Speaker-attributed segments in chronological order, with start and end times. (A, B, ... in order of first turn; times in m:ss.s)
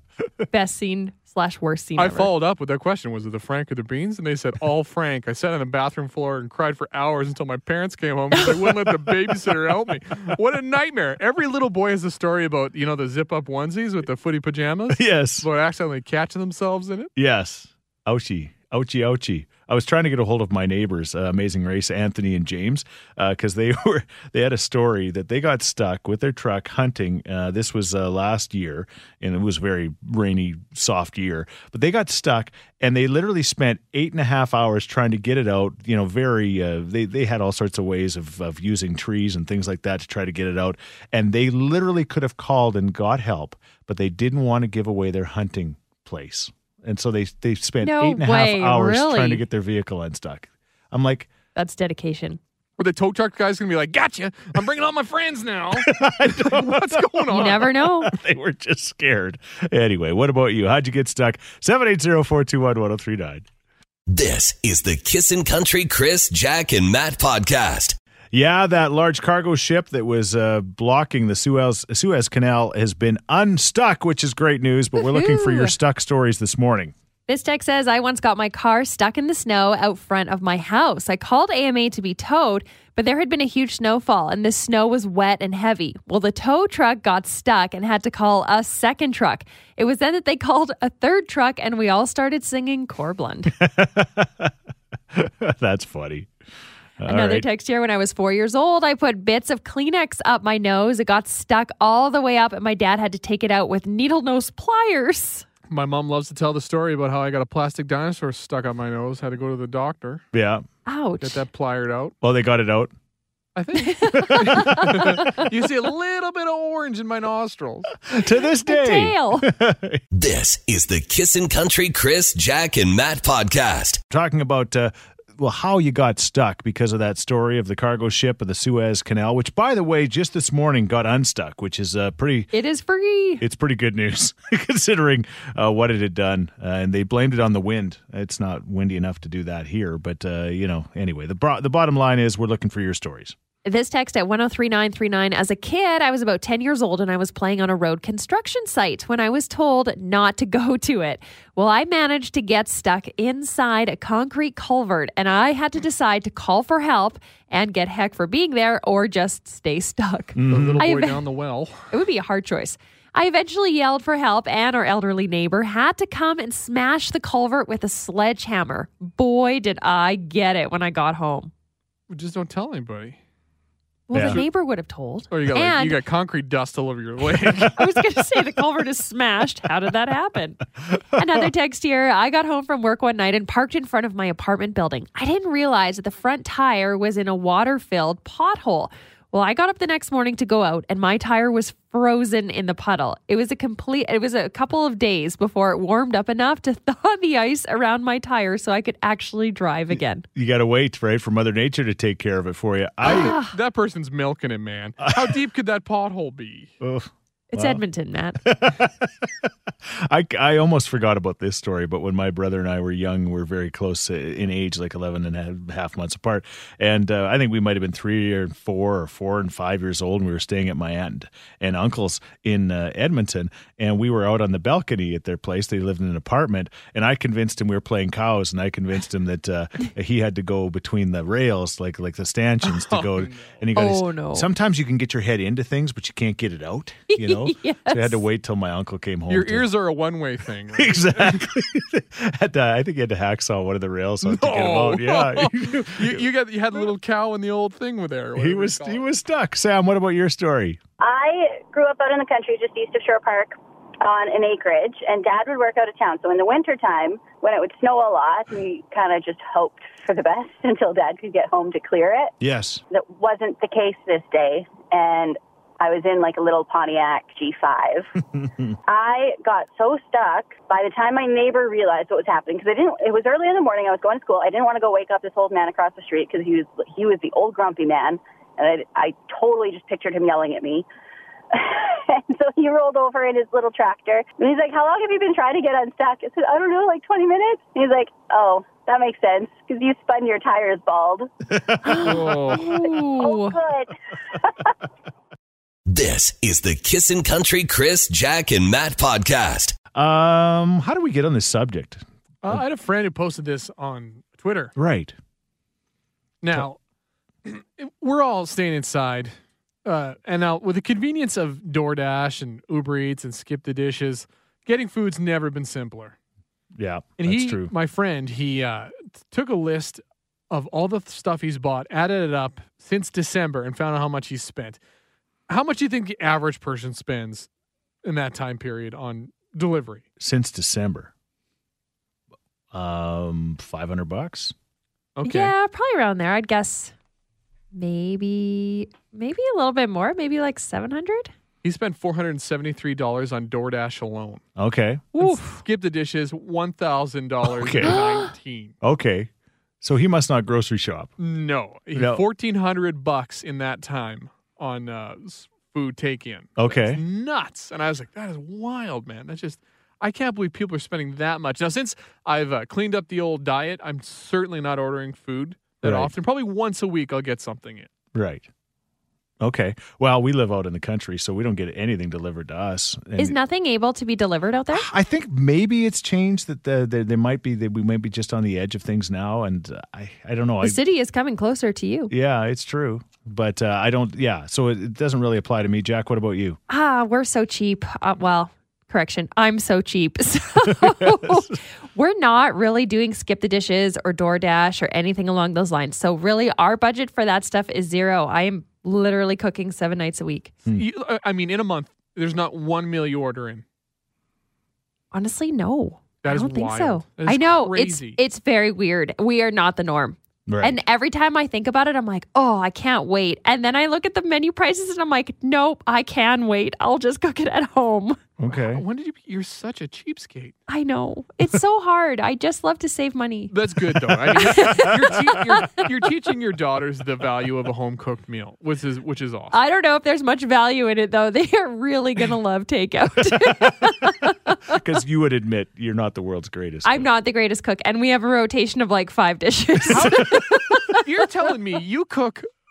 0:00.5-0:02.3 A
0:02.0-0:17.1 B
0:14.9-0:15.5 C
0:17.2-0:51.3 C
0:47.8-0:49.4 A
0:51.6-0:52.4 A
0:52.8-0:57.9 B
0:55.7-1:03.5 C
0:57.3-0:58.2 A
1:04.1-1:08.0 D
1:08.3-1:16.9 C
1:15.0-1:15.8 A
1:17.3-1:33.5 A
1:33.5-1:34.5 C
1:35.1-1:36.3 C
1:37.0-1:37.5 C
1:37.0-1:45.5 A
1:45.7-1:50.2 B
1:50.3-1:50.6 C
1:50.9-1:51.4 A
1:51.2-1:52.2 B
1:52.2-1:52.9 C
1:53.6-1:58.0 B
1:53.8-1:55.5 A
1:54.3-1:55.0 C
1:58.1-2:00.0 C
1:58.7-1:59.5 A
2:00.1-2:04.0 D
2:04.1-2:12.5 C
2:12.5-2:13.4 A
2:13.4-2:23.4 C
2:23.6-2:41.2 A
2:40.4-2:40.9 C
2:40.5-2:41.9 B
2:41.9-2:51.5 A
2:52.1-2:53.2 B
2:54.1-2:56.0 A
2:54.1-2:54.4 C
2:54.2-2:54.4 B
2:55.3-2:57.8 B
2:57.7-3:00.6 A
3:01.1-3:20.3 A
3:01.2-3:01.5 C
3:19.9-3:23.4 C
3:23.0-3:23.6 A
3:23.1-3:26.7 B
3:25.0-3:25.4 C
3:26.8-3:27.8 C
3:27.5-3:28.4 A
3:28.4-3:59.7 C
3:52.7-3:53.6 B
3:53.7-3:54.5 A
3:57.1-3:58.2 A
3:59.3-4:01.5 B
4:00.8-4:06.3 C
4:04.2-4:09.0 B
4:08.4-4:10.8 C
4:11.0-4:22.3 E
4:22.4-4:22.8 C
4:22.9-4:28.1 E
4:28.3-4:28.7 C
4:28.9-4:40.9 E
4:41.5-4:51.3 E
4:51.5-4:52.2 C
4:51.8-4:53.6 A
4:52.0-4:52.8 B
4:53.2-4:53.9 E
4:55.9-4:59.8 D
4:59.9-5:02.6 C
5:02.4-5:04.7 B
5:04.8-5:05.2 C
5:06.4-5:06.8 B
5:07.4-5:16.2 B
5:16.8-5:17.7 C
5:17.2-5:24.8 B
5:25.5-5:27.5 B
5:28.0-5:30.0 B
5:30.2-5:31.1 C
5:32.7-5:34.6 C
5:35.2-5:35.5 B
5:35.2-5:36.9 A
5:37.7-5:41.3 A
5:41.6-5:44.4 B
5:44.6-5:45.3 C
5:45.2-5:45.6 A
5:45.2-5:48.8 B
5:47.4-5:48.0 C
5:47.9-5:48.3 A
5:48.8-5:51.1 C
5:51.2-6:07.9 B
5:51.9-5:52.2 C
5:56.6-5:57.0 C
6:05.8-6:06.1 C
6:08.1-6:08.5 C
6:09.4-6:13.4 C
6:13.2-6:14.9 A
6:14.7-6:20.8 C
6:20.6-6:22.1 A
6:22.1-6:26.6 C
6:26.7-6:40.5 A
6:30.7-6:31.6 C
6:40.7-6:43.6 B
6:45.1-6:58.2 A
6:46.2-6:48.2 B
6:50.5-6:50.8 C
6:58.4-6:58.8 C
6:58.5-7:00.6 B
7:00.7-7:03.5 A
7:03.5-7:09.6 B
7:04.2-7:04.9 C
7:04.4-7:05.6 A
7:09.5-7:14.8 A
7:13.3-7:14.1 C
7:14.7-7:17.1 C
7:16.8-7:21.0 A
7:19.9-7:22.5 B
7:19.9-7:20.4 C